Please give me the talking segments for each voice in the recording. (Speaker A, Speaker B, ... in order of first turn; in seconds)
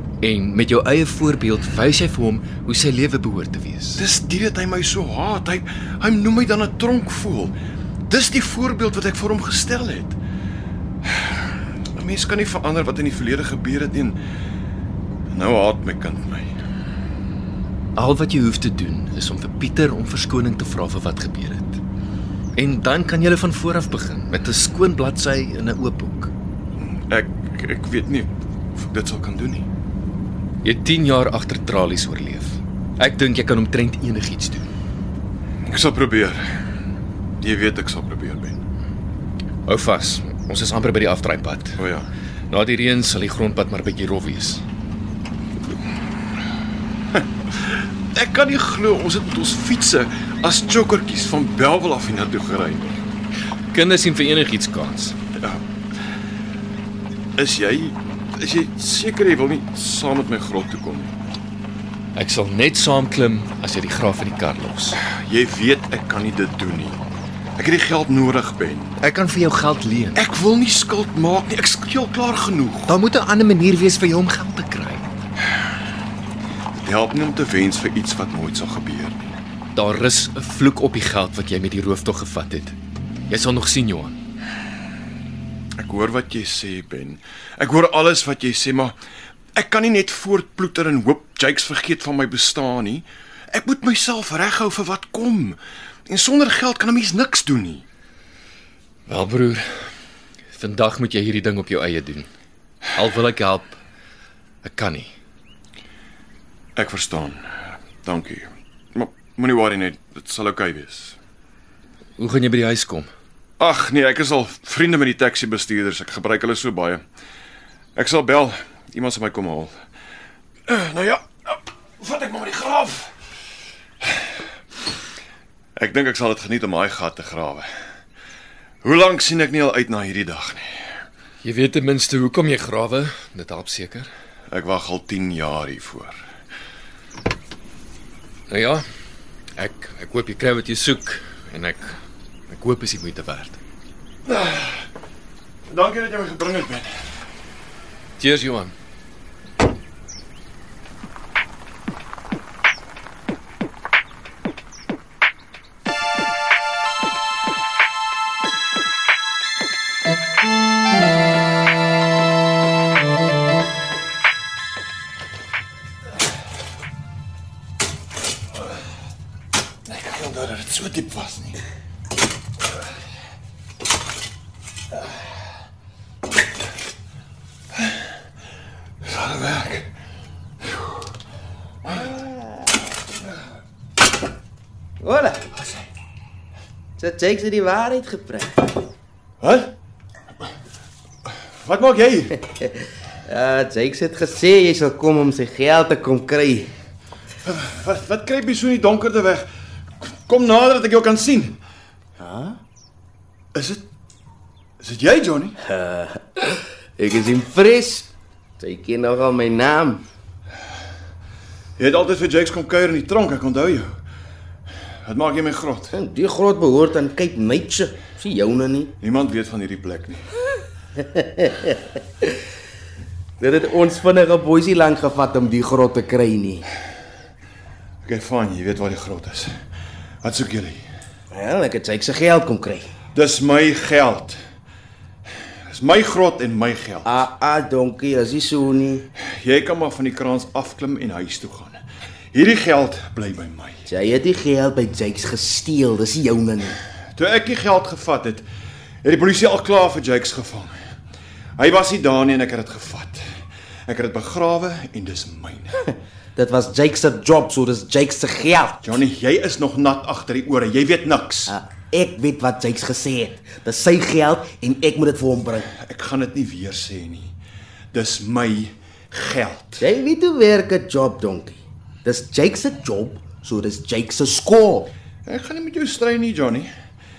Speaker A: 0.2-4.0, 17.9-21.8, 22.6-26.3, 30.6-34.7, 39.6-41.8, 42.5-44.6, 53.7-55.2, 62.1-65.0, 69.0-70.2, 72.9-75.1, 79.8-82.8, 83.3-84.2, 99.1-99.7, 100.5-102.3, 103.0-103.8, 104.6-105.1, 112.2-113.1, 131.4-134.1, 138.5-138.8, 139.6-142.0, 142.5-143.6, 148.2-148.7
Speaker B: 4.0-7.6, 8.1-10.2, 11.1-14.2, 15.3-16.5, 26.8-29.7, 35.6-36.4, 37.4-38.6, 41.8-42.1, 47.1-53.0, 55.4-55.6, 57.4-61.2, 65.0-69.0, 70.2-72.9, 76.7-79.4, 85.8-89.0, 89.5-97.8, 106.8-111.2, 113.6-117.0, 118.0-119.8, 120.7-123.1, 125.8-127.7, 128.8-131.0, 134.5-136.2, 144.3-144.8, 145.7-147.0, 169.9-171.6, 179.0-179.9, 189.4-189.7, 191.6-192.4, 197.4-199.5, 200.0-201.6, 203.5-203.8, 204.8-205.6, 211.8-213.9, 215.1-215.9, 219.0-220.2, 228.1-229.5, 230.2-230.9, 233.1-234.4, 235.7-237.2, 239.2-241.8, 242.3-243.8, 247.2-248.5, 249.0-250.7, 251.6-253.2, 253.9-255.8, 258.8-261.6, 265.7-267.3, 267.9-269.9, 275.2-276.7
Speaker C: 182.0-182.3, 185.0-185.5, 187.0-188.8, 193.3-196.7, 202.2-202.6, 205.7-210.0, 215.9-218.9, 221.0-221.8, 223.4-226.7, 231.3-232.9, 237.1-239.1, 243.9-246.8, 256.4-258.9, 261.5-265.7, 269.8-274.9